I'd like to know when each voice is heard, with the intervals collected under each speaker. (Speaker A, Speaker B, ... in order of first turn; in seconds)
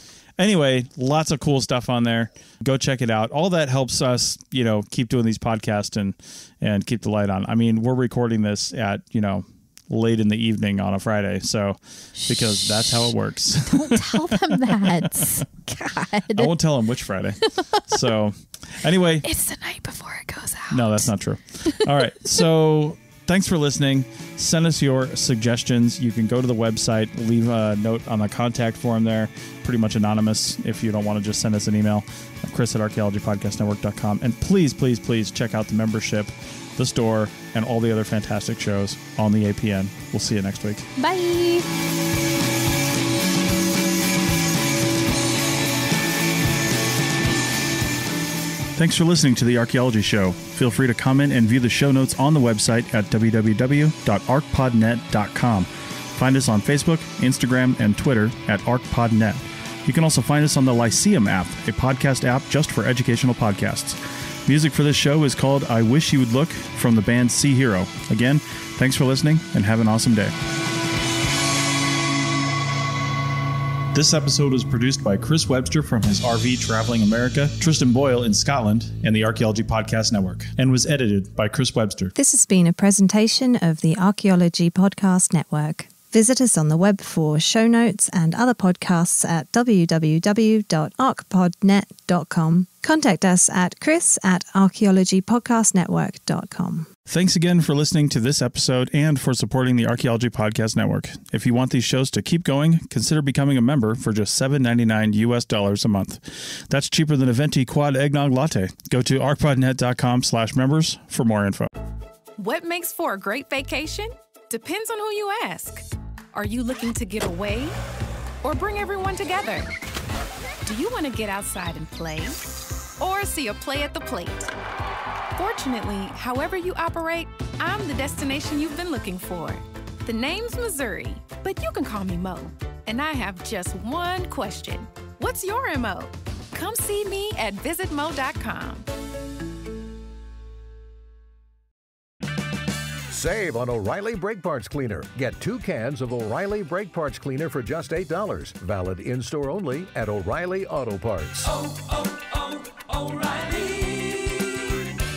Speaker A: 0.4-15.4, 16.3-19.2, 20.7-40.9, 48.8-70.3, 73.9-82.1, 97.1-111.7
Speaker B: 12.2-16.5, 17.4-17.9, 19.2-21.1, 21.6-22.1, 41.0-41.7
Speaker C: 82.2-96.9
Speaker D: 112.4-117.7, 118.4-119.7, 120.6-122.4, 123.0-124.5, 125.3-138.8
Speaker E: 143.1-151.7, 153.1-153.6